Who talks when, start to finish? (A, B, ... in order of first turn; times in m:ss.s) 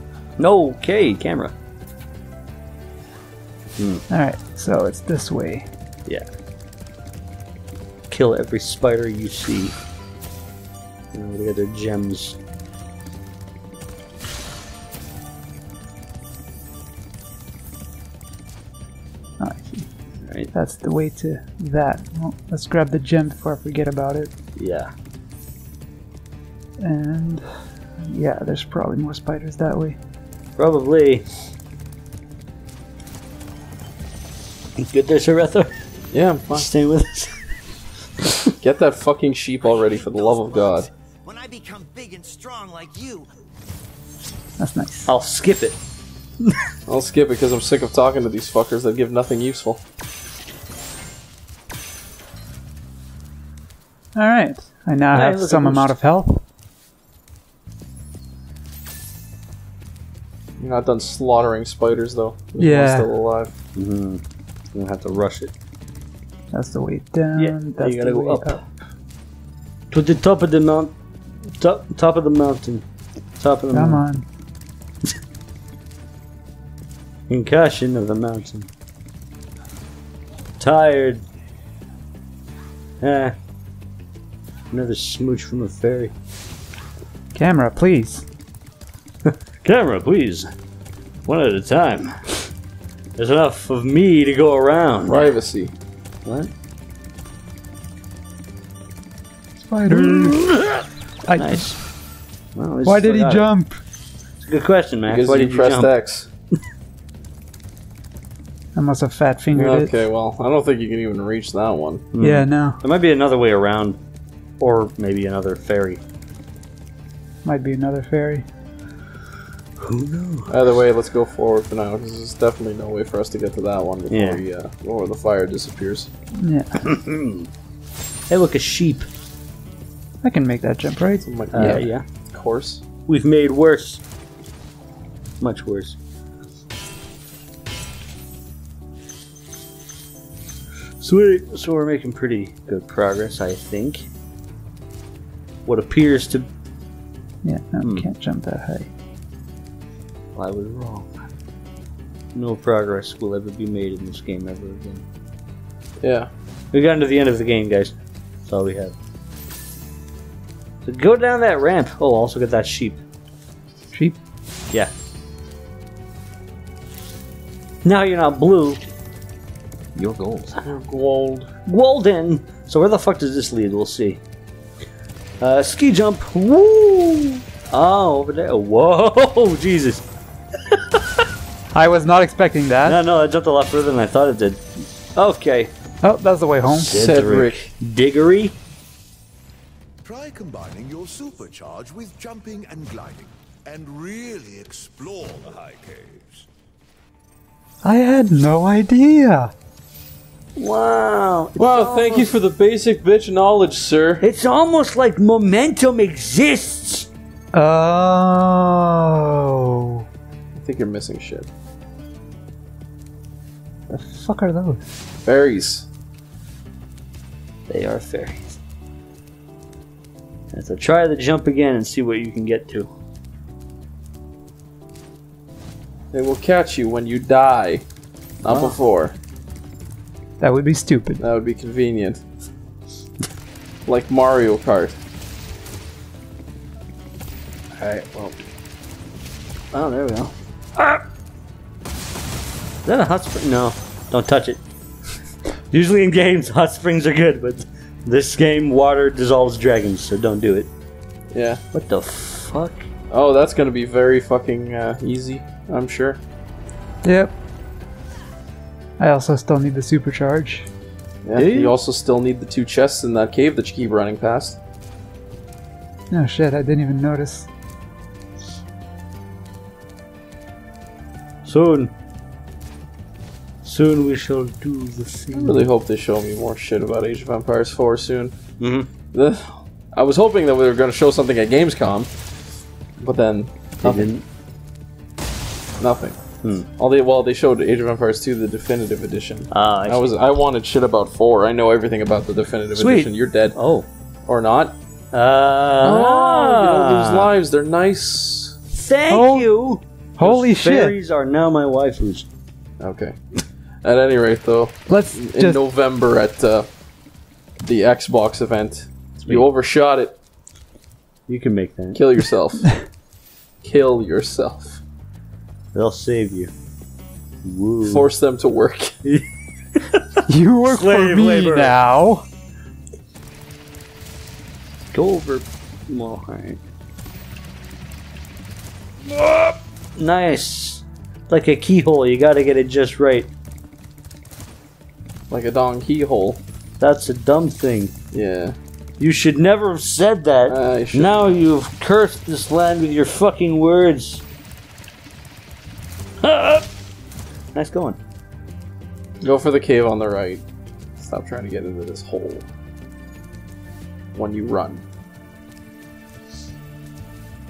0:00.4-0:01.5 A
0:03.8-0:04.0 A
0:04.1-0:05.7 B
0:08.1-0:09.8 A
0:11.1-0:12.4 A
0:19.4-0:19.9 B
0:20.2-0:20.5 A
0:20.5-0:24.3 B
0:24.6-0:24.9 A
0:26.8-0:27.4 B
0:28.1-0:30.0 B
0:30.6-0:31.2 A
0:34.8-0:35.7 A
0:36.1-0:36.7 C
0:36.5-0:37.3 A
0:38.6-0:40.9 C
0:41.2-0:43.3 D
0:44.6-0:45.1 B
0:45.0-0:45.8 A
0:46.9-0:49.8 C
0:54.2-0:56.4 B
0:55.1-0:55.9 A
1:00.6-1:03.5 C
1:02.6-1:03.1 B
1:03.8-1:04.2 A
1:04.7-1:05.5 A
1:06.5-1:08.7 B
1:07.4-1:08.6 A
1:09.9-1:10.9 A
1:11.6-1:12.8 A
1:13.4-1:14.0 A
1:13.7-1:14.2 B
1:17.3-1:18.7 A
1:20.6-1:21.2 A
1:23.0-1:23.3 A
1:24.7-1:26.1 A
1:27.3-1:28.2 B
1:29.2-1:30.5 A
1:31.3-1:32.2 A
1:33.2-1:35.3 A
1:35.0-1:35.7 C
1:36.2-1:36.5 A
1:39.6-1:40.4 B
1:39.9-1:41.8 A
1:41.2-1:41.7 B
1:42.5-1:43.5 A
1:42.8-1:43.8 B
1:44.4-1:45.9 A
1:45.1-1:46.3 C
1:48.8-1:49.9 B
1:49.5-1:52.1 C
1:52.1-1:54.0 A
1:52.2-1:52.8 B
1:54.6-1:56.0 A
1:57.4-1:58.4 B
1:59.8-2:00.5 A
2:00.5-2:06.1 C
2:04.1-2:04.4 A
2:06.4-2:06.7 B
2:06.8-2:07.5 A
2:08.3-2:09.1 A
2:10.2-2:11.8 B
2:11.2-2:12.8 C
2:11.5-2:12.0 A
2:13.1-2:14.0 A
2:15.4-2:16.0 A
2:21.0-2:24.1 A
2:25.6-2:26.5 A
2:27.4-2:28.9 B
2:27.8-2:28.1 A
2:30.3-2:31.2 A
2:32.3-2:35.0 A
2:36.0-2:36.3 C
2:36.7-2:38.9 A
2:40.8-2:43.0 A
2:47.8-2:48.8 A
2:49.9-2:50.6 A
2:50.6-2:51.5 C
2:51.7-2:54.2 A
2:55.4-3:00.0 A
3:01.7-3:03.0 B
3:02.8-3:04.6 A
3:05.1-3:05.7 A
3:06.0-3:06.9 B
3:06.7-3:08.6 A
3:06.9-3:07.7 C
3:10.1-3:13.1 E
3:11.1-3:16.0 D
3:13.8-3:15.9 E
3:17.8-3:19.5 B
3:20.6-3:22.3 A
3:21.6-3:24.2 C
3:24.2-3:27.1 A
3:27.5-3:30.0 B
3:30.5-3:31.5 C
3:33.9-3:34.8 B
3:35.2-3:35.9 C
3:37.7-3:38.6 A
3:40.5-3:42.9 A
3:46.1-3:47.8 C
3:48.4-3:49.1 C
3:50.4-3:51.2 B
3:51.2-3:52.2 C
3:53.8-3:55.0 C
3:57.8-3:58.3 A
3:59.7-4:01.0 A
4:02.8-4:04.6 A
4:05.7-4:10.7 A
4:11.3-4:11.6 C
4:11.7-4:12.8 A
4:13.1-4:16.2 C
4:17.0-4:17.3 B
4:19.0-4:20.7 B
4:21.2-4:24.6 C
4:21.3-4:21.8 A
4:26.1-4:27.5 B
4:31.4-4:31.9 A
4:33.6-4:35.7 A
4:35.3-4:38.3 C
4:38.6-4:38.9 A
4:39.1-4:42.1 C
4:43.0-4:44.1 C
4:43.8-4:44.2 A
4:45.8-4:53.6 C
4:49.5-4:50.1 A
4:52.7-4:53.9 A
4:54.2-4:54.7 C
4:55.1-4:57.3 A
4:55.8-4:58.6 C
4:58.7-5:02.3 A
4:59.1-4:59.5 B
5:00.2-5:00.9 B
5:02.8-5:06.7 C
5:04.9-5:05.6 B
5:07.6-5:10.1 C
5:11.3-5:12.0 A
5:11.9-5:12.7 C
5:13.6-5:14.8 C
5:15.7-5:16.5 A
5:17.4-5:18.1 A
5:17.8-5:18.9 C
5:19.8-5:20.0 A
5:20.3-5:22.2 B
5:20.6-5:21.8 A
5:24.9-5:26.6 A
5:29.0-5:33.3 A
5:35.3-5:36.4 C
5:36.8-5:37.9 A
5:38.1-5:38.6 C
5:39.0-5:44.2 A
5:40.5-5:41.3 C
5:46.2-5:46.6 A
5:47.5-5:48.0 A
5:49.2-5:50.4 C
5:51.0-5:52.4 C
5:54.1-5:54.8 C